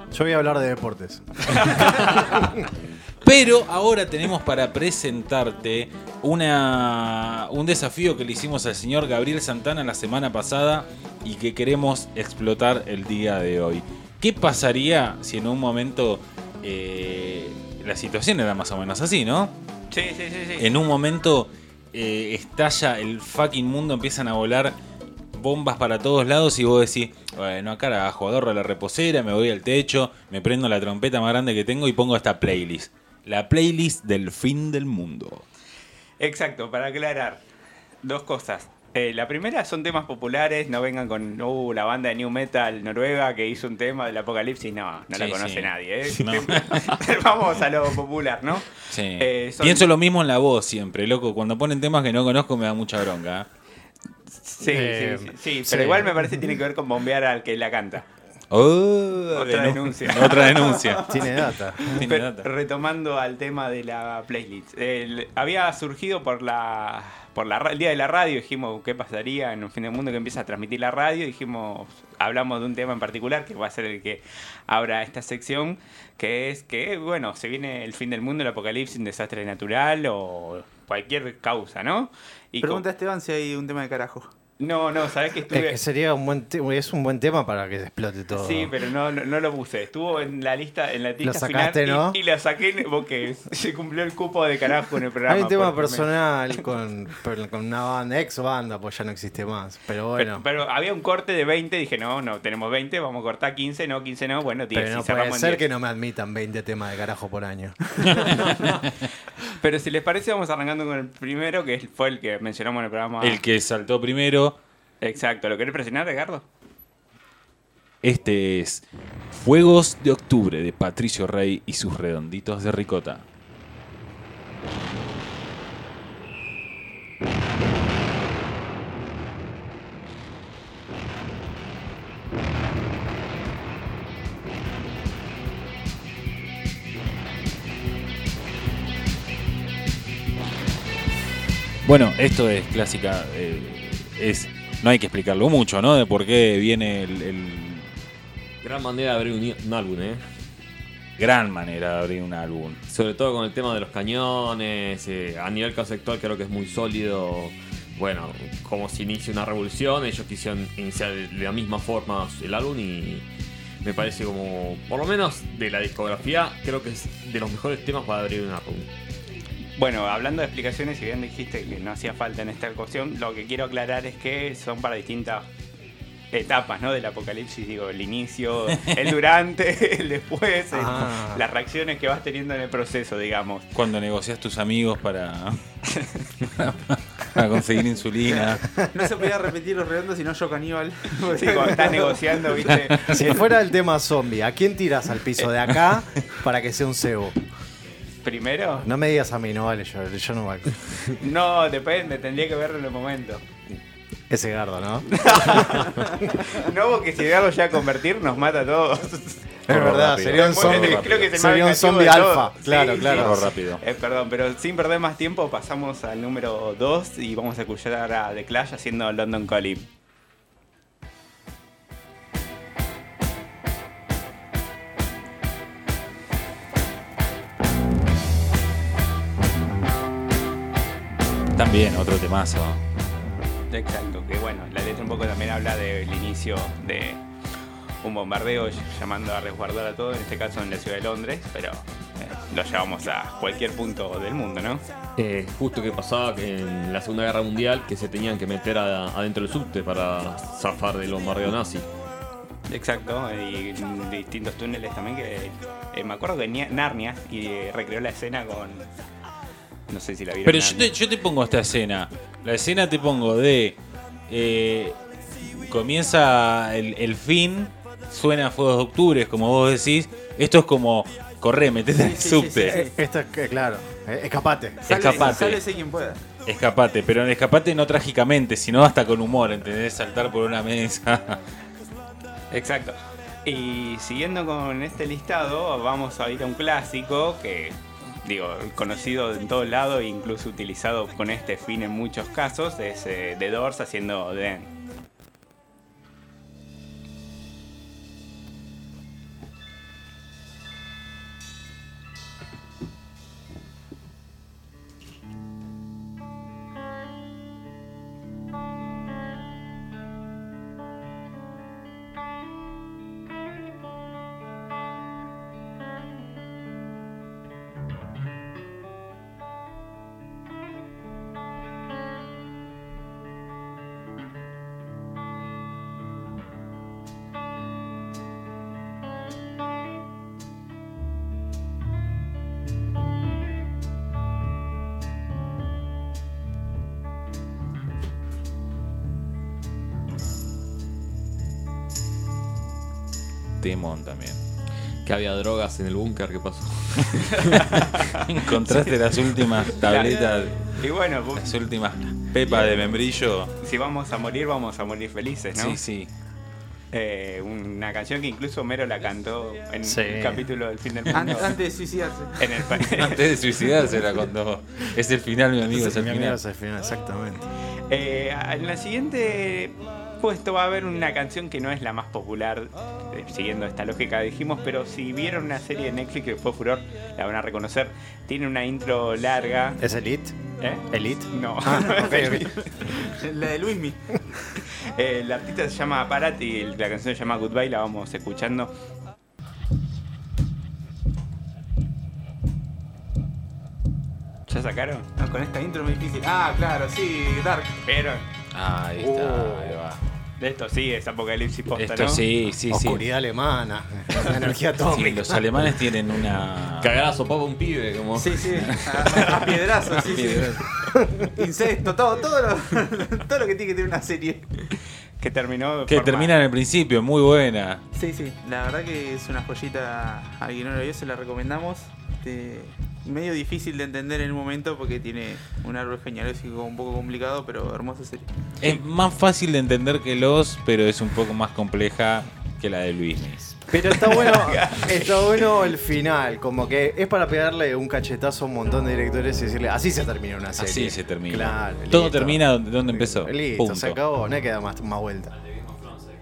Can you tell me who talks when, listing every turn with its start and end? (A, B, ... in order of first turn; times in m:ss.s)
0:00.1-0:02.4 A
0:03.2-0:19.5 B
0:19.9-0:20.7 C
0:20.6-0:24.8 B
0:25.3-0:35.4 B
0:36.2-0:37.4 C
0:38.0-0:49.9 C
0:45.1-0:46.9 B
0:46.2-0:46.8 D
0:48.9-0:53.5 B
0:54.4-0:58.0 C
0:54.6-0:56.3 A
0:58.5-1:02.5 B
0:59.3-1:01.3 C
1:01.0-1:02.1 A
1:01.9-1:22.8 C
1:22.6-1:24.3 E
1:24.6-1:25.8 C
1:25.5-1:28.7 A
1:28.3-1:36.1 C
1:31.2-1:32.2 A
1:35.3-1:40.4 A
1:40.2-1:45.6 C
1:44.7-1:48.4 A
1:48.0-1:48.9 B
1:49.5-1:53.4 C
1:53.2-1:54.6 B
1:55.0-1:56.4 C
1:58.0-2:03.2 B
2:21.8-2:27.9 B
2:28.6-2:30.2 D
2:31.2-2:32.8 B
2:32.9-2:43.2 D
2:43.8-2:48.9 D
2:49.8-2:55.5 C
2:56.3-3:03.6 C
3:00.7-3:01.4 A
3:03.7-3:05.6 B
3:05.9-3:06.3 C
3:06.4-3:08.6 B
3:08.4-3:09.2 A
3:08.9-3:12.2 E
3:11.3-3:13.3 C
3:13.0-3:17.4 A
3:15.4-3:15.6 C
3:18.2-3:18.8 C
3:18.8-3:20.8 A
3:21.2-3:23.4 C
3:24.3-3:26.3 A
3:25.2-3:29.4 C
3:29.7-3:33.5 A
3:29.7-3:31.3 B
3:30.3-3:39.9 C
3:33.0-3:33.8 B
3:51.6-3:52.8 B
3:53.7-3:57.2 C
3:58.0-4:04.8 C
4:05.2-4:11.9 D
4:12.7-4:18.9 C
4:19.9-4:20.9 C
4:20.4-4:32.8 B
4:32.0-4:32.9 E
4:32.6-4:35.3 A
4:34.8-4:36.2 E
4:34.9-4:35.6 B
4:36.4-4:41.4 B
4:42.5-4:54.7 C
5:43.6-5:44.4 B
5:45.0-5:47.7 D
5:47.5-5:51.5 C
5:47.5-5:50.8 B
5:51.4-5:53.5 B
5:52.5-5:53.0 C
5:53.6-5:55.8 C
5:55.5-5:56.1 B
5:56.9-6:01.5 C
5:59.8-6:00.5 A
6:01.1-6:02.4 E
6:02.4-6:03.6 C
6:02.8-6:06.4 B
6:05.6-6:07.5 A
6:07.9-6:19.8 C
6:19.8-6:20.4 A
6:20.6-6:22.7 C
6:20.9-6:22.6 A
6:23.1-6:24.0 E
6:24.7-6:28.7 C
6:34.5-6:35.1 C
6:35.2-6:37.8 E
6:37.8-6:38.2 C
6:38.5-6:40.0 B
6:39.0-6:39.8 A
6:40.4-6:42.2 C
6:41.8-6:43.0 B
6:42.7-6:45.4 A
6:44.9-6:47.0 B
6:46.8-6:49.5 D
6:48.2-6:50.7 E
6:48.6-6:50.6 B
6:51.3-6:54.6 E
6:55.2-6:56.3 C
6:55.9-6:57.8 B
6:57.9-7:08.3 E
7:08.6-7:13.7 B
7:13.7-7:25.3 A
7:14.0-7:15.5 C
7:20.6-7:24.0 B